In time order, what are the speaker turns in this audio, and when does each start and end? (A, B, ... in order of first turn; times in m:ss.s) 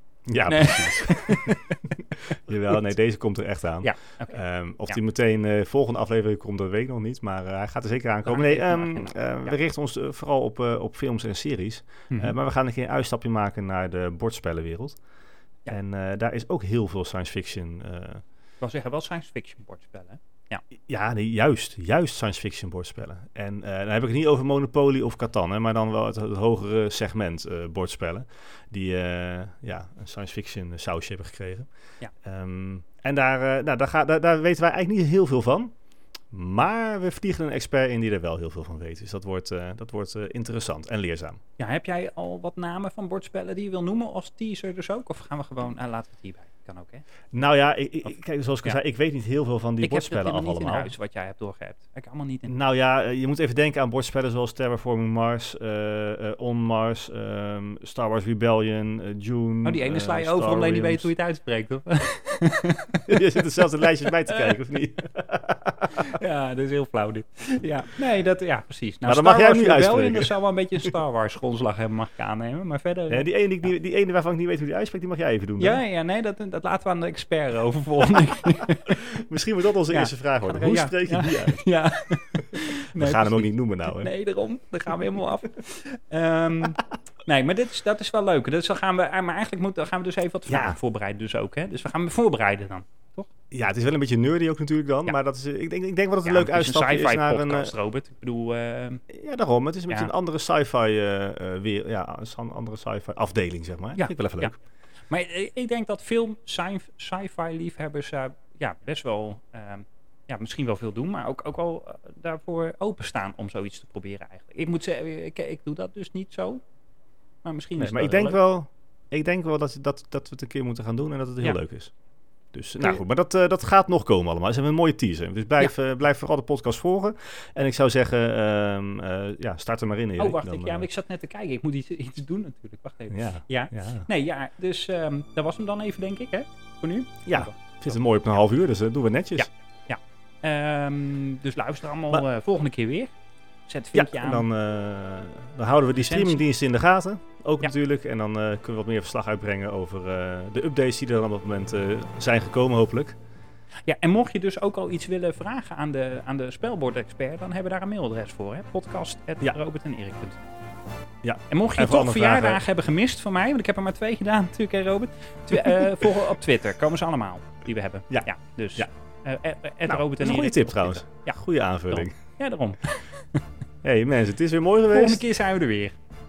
0:00.3-0:01.6 A
0:00.4-0:02.8 B
0:02.1-0:15.0 A
0:03.8-0:05.0 B
0:08.2-0:09.6 B
0:12.1-0:12.4 B
0:15.7-0:18.2 A
0:18.6-0:20.6 B
0:20.8-0:31.7 A
0:32.2-0:35.7 A
0:36.3-0:41.4 A
0:41.6-0:47.0 B
0:47.3-0:50.9 A
0:49.8-0:52.5 B
0:52.5-1:01.1 A
0:59.6-1:04.5 B
1:03.1-1:06.2 A
1:05.9-1:13.3 B
1:09.0-1:10.9 A
1:13.1-1:15.8 A
1:15.6-1:19.2 B
1:18.8-1:21.6 A
1:19.9-1:33.3 B
1:22.4-1:24.1 A
1:30.5-1:30.8 A
1:33.5-1:37.7 A
1:36.2-1:39.0 B
1:39.1-1:44.5 A
1:44.0-1:44.5 B
1:45.1-1:56.6 B
1:57.4-1:58.4 B
1:57.8-2:01.9 A
2:02.5-2:10.9 A
2:10.2-2:17.6 B
2:13.1-2:14.1 A
2:17.2-2:19.5 A
2:19.4-2:23.1 B
2:23.7-2:24.4 B
2:23.9-2:33.2 A
2:26.0-2:26.4 B
2:33.9-2:40.5 B
2:41.2-2:42.6 A
2:41.5-2:51.4 B
2:45.5-2:46.2 A
2:48.1-2:48.9 A
2:49.8-2:52.1 A
2:51.9-2:53.4 B
2:53.8-2:55.2 A
2:54.9-2:56.0 B